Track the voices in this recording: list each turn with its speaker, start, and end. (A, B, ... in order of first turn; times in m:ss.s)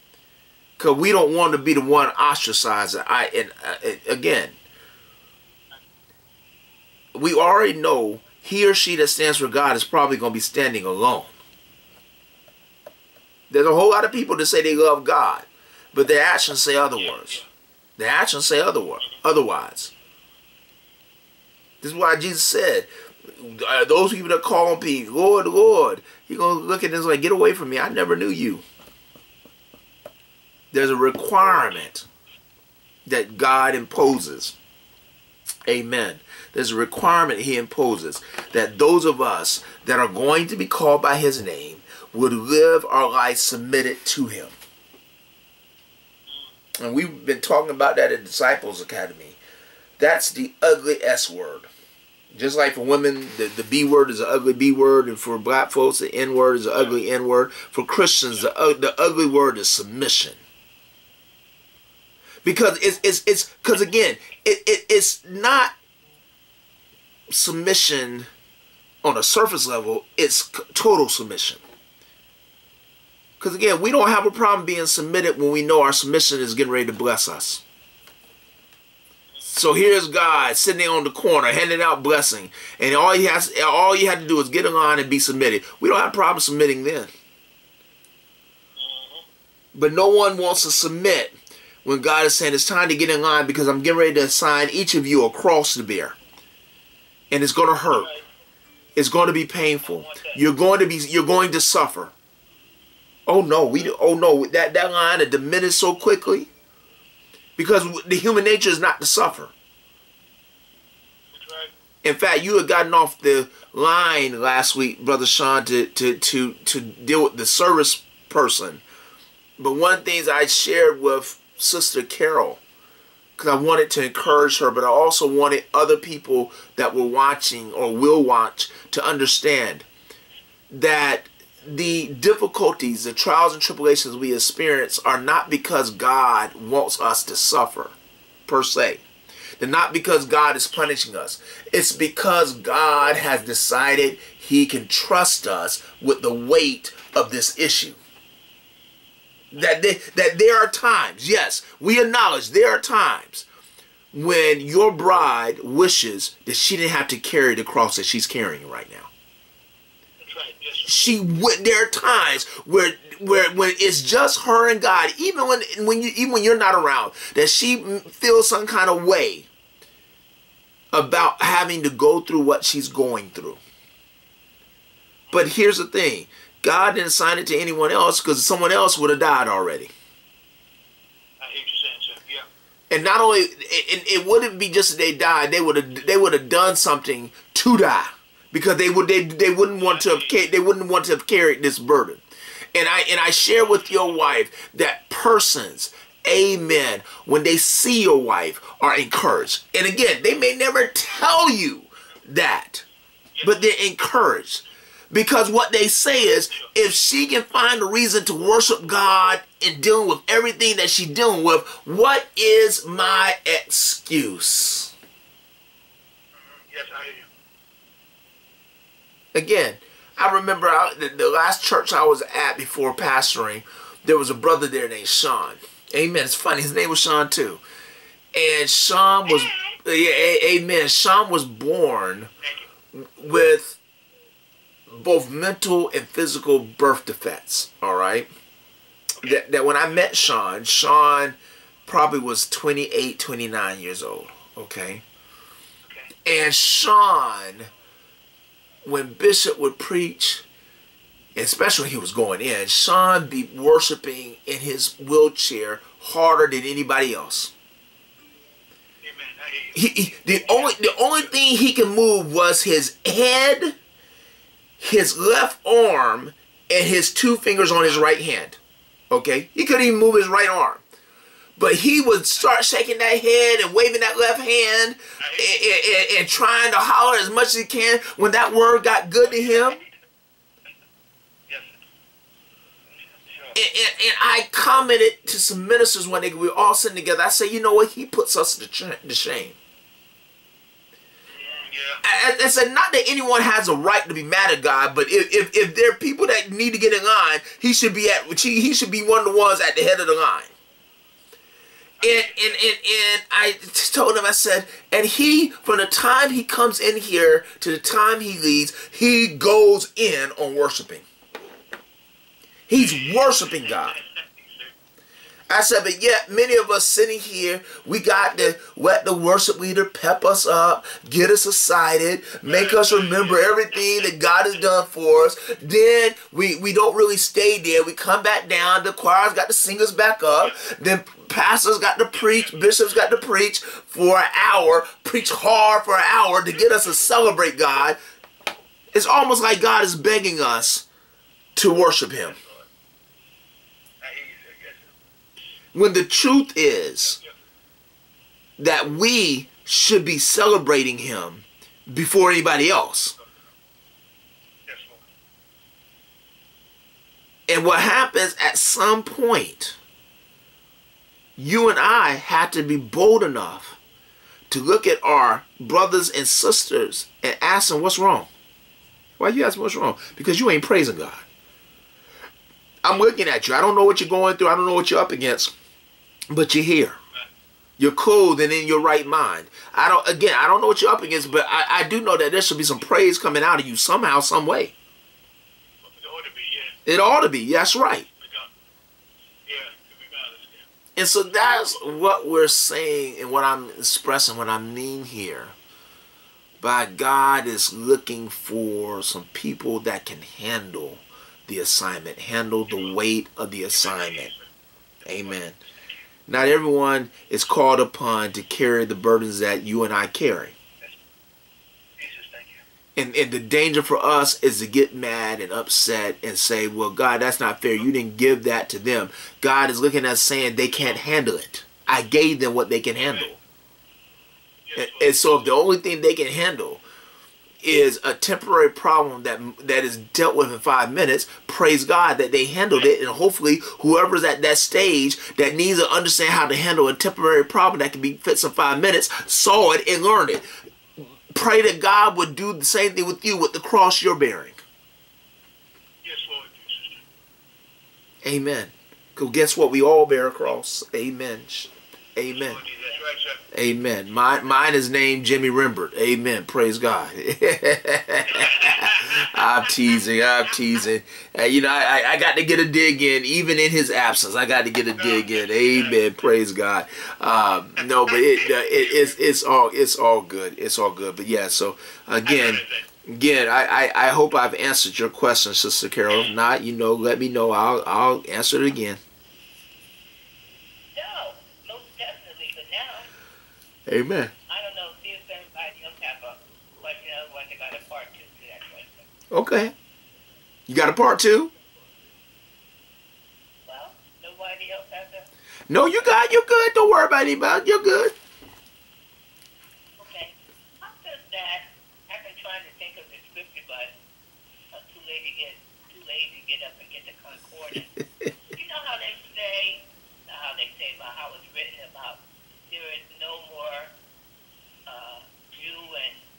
0:00.8-0:04.6 A
0:07.2-0:11.3 A
0:13.5-0:17.4 A
0:17.0-0:17.4 B
0:18.0-0:19.9 A
0:21.8-0:28.6 A
0:30.7-0:32.0 A
0:33.1-0:34.6 A
0:35.7-0:44.5 A
0:46.8-0:49.4 A
0:50.0-0:51.7 A
0:52.3-1:00.4 A
1:02.4-1:05.7 A
1:07.3-1:08.3 A
1:09.0-1:11.6 A
1:13.4-1:17.6 A
1:19.4-1:27.1 A
1:28.8-1:29.3 B
1:29.8-1:36.2 A
1:37.3-1:38.1 A
1:37.9-1:38.2 B
1:39.0-1:42.1 A
1:39.8-1:40.4 B
1:43.3-1:46.5 A
1:47.6-1:49.5 A
1:51.3-1:51.7 B
1:52.0-1:58.8 A
1:59.6-2:02.6 A
2:03.4-2:09.9 A
2:10.7-2:18.0 A
2:18.5-2:19.0 A
2:19.6-2:28.0 A
2:29.5-2:33.5 A
2:34.1-2:39.1 A
2:40.2-2:41.1 B
2:40.8-2:49.5 A
2:50.9-2:53.6 A
2:55.3-2:59.9 A
3:01.4-3:02.5 B
3:02.9-3:12.2 A
3:09.8-3:10.4 B
3:12.7-3:22.8 A
3:23.3-3:23.7 B
3:23.4-3:34.9 A
3:26.2-3:26.7 B
3:36.4-3:37.3 B
3:39.3-3:47.6 A
3:48.4-3:52.3 A
3:52.4-3:52.7 B
3:52.9-3:53.8 A
3:54.9-3:58.3 A
3:59.2-4:05.0 A
4:05.8-4:06.1 B
4:06.2-4:07.7 A
4:08.8-4:10.4 A
4:11.4-4:17.5 A
4:19.0-4:21.3 B
4:19.7-4:23.8 A
4:24.8-4:28.6 A
4:27.8-4:28.2 B
4:29.1-4:30.8 A
4:31.6-4:39.8 A
4:35.2-4:35.6 B
4:39.2-4:39.9 B
4:43.2-4:43.6 B
4:43.6-4:49.6 A
4:51.3-4:52.0 B
4:52.0-5:00.5 A
5:02.0-5:02.6 B
5:02.0-5:11.0 A
5:12.7-5:14.0 A
5:12.7-5:14.7 B
5:15.5-5:38.0 A
5:22.4-5:24.1 B
5:32.2-5:32.8 B
5:38.9-5:40.9 A
5:41.6-5:42.4 A
5:42.2-5:42.7 B
5:44.0-5:44.9 B
5:45.7-5:47.2 A
5:47.0-5:47.3 B
5:48.6-5:53.2 A
5:54.7-5:55.0 B
5:57.5-5:59.8 A
6:01.4-6:03.8 A
6:04.5-6:08.3 A
6:09.2-6:11.2 A
6:12.8-6:15.5 A
6:16.3-6:17.0 A
6:17.8-6:24.7 A
6:25.8-6:26.8 B
6:26.9-6:28.1 A
6:28.2-6:28.5 B
6:29.5-6:30.7 B
6:31.0-6:35.5 A
6:36.6-6:44.3 A
6:42.7-6:43.0 B
6:43.7-6:44.4 B
6:45.0-6:45.4 B
6:45.1-6:45.6 A
6:46.3-6:50.5 A
6:52.0-6:52.6 B
6:53.0-7:03.4 A
7:00.7-7:01.0 B
7:03.0-7:03.3 B
7:04.7-7:05.5 B
7:04.8-7:06.8 A
7:07.6-7:20.4 A
7:21.3-7:24.6 A
7:26.0-7:27.0 B
7:28.2-7:32.6 A
7:32.3-7:33.4 B
7:33.5-7:59.0 A
7:38.3-7:39.2 B
7:44.9-7:46.0 B
7:47.8-7:49.2 B
7:52.2-7:52.8 B
8:00.9-8:03.1 C
8:03.9-8:04.3 A
8:04.5-8:09.1 C
8:09.3-8:09.7 A
8:10.7-8:11.5 A
8:13.6-8:15.3 C
8:15.7-8:18.1 A
8:20.0-8:24.0 C
8:24.7-8:27.9 C
8:28.5-8:33.9 C
8:34.9-8:36.2 C